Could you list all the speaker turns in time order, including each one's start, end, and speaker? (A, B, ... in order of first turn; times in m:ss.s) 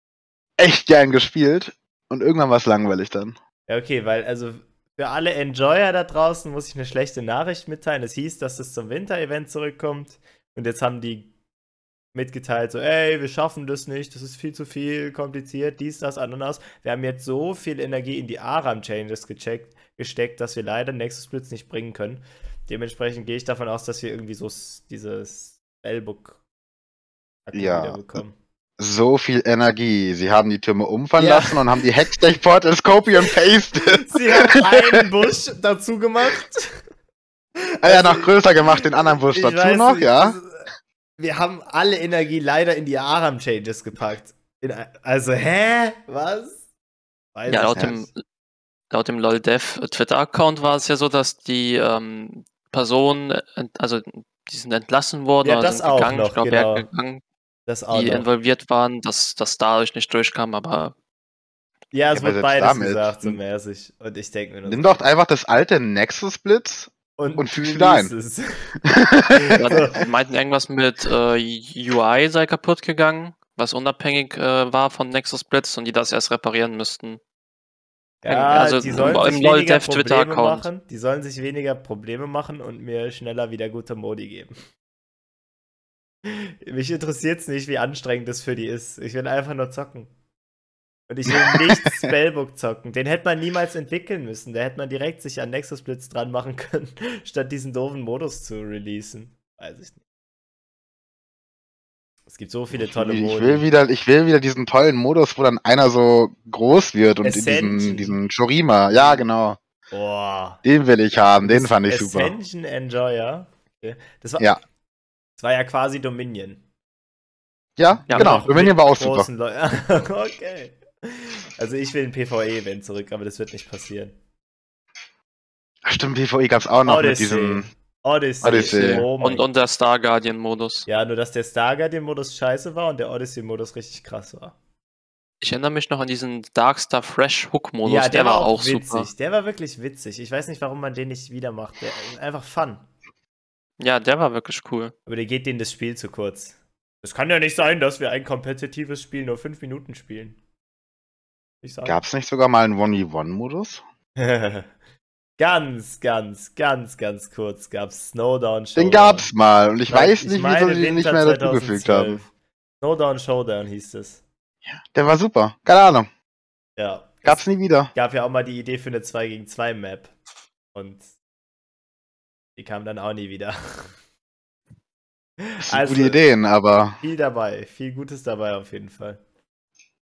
0:00.6-0:03.4 A
0:03.7-0:11.3 B
0:12.1-0:26.4 B
0:27.5-0:28.4 B
0:27.5-0:28.2 A
0:28.8-0:35.0 A
0:31.2-0:31.6 B
0:33.9-0:36.8 B
0:37.6-0:40.7 B
0:37.8-0:40.4 A
0:41.2-0:46.6 B
0:47.4-0:48.1 B
0:47.5-0:48.2 C
0:48.9-0:57.2 C
0:55.4-0:56.9 B
0:57.7-0:58.3 B
0:57.9-1:00.9 C
1:01.9-1:05.0 B
1:02.1-1:03.4 A
1:04.7-1:08.1 A
1:07.2-1:08.7 B
1:08.8-1:09.8 A
1:09.4-1:10.0 B
1:09.5-1:17.2 C
1:18.2-1:24.5 B
1:18.3-1:20.7 C
1:18.9-1:19.2 A
1:26.2-1:30.1 B
1:31.1-1:40.0 B
1:31.3-1:32.0 A
1:42.3-1:43.6 B
1:42.7-1:49.6 A
1:47.2-1:48.2 B
1:49.0-1:49.2 B
1:49.9-1:50.6 B
1:50.6-1:52.3 A
1:51.4-1:54.5 B
1:55.4-1:56.6 B
1:57.8-1:59.3 A
1:58.1-2:04.2 B
2:05.8-2:07.7 A
2:06.8-2:09.4 B
2:08.4-2:09.0 A
2:08.4-2:10.9 C
2:10.9-2:14.6 B
2:15.4-2:19.1 C
2:17.8-2:22.9 B
2:23.8-2:24.9 C
2:25.1-2:30.4 B
2:31.6-2:32.0 B
2:31.8-2:33.8 A
2:34.2-2:34.7 B
2:35.4-2:39.3 B
2:38.8-2:42.2 A
2:39.9-2:42.3 B
2:42.8-2:44.2 B
2:44.7-2:46.1 A
2:46.8-2:50.1 B
2:47.2-2:47.9 A
2:50.7-2:51.1 B
2:52.6-2:53.9 B
2:55.4-2:56.2 B
2:55.6-2:57.0 A
2:57.0-2:59.2 B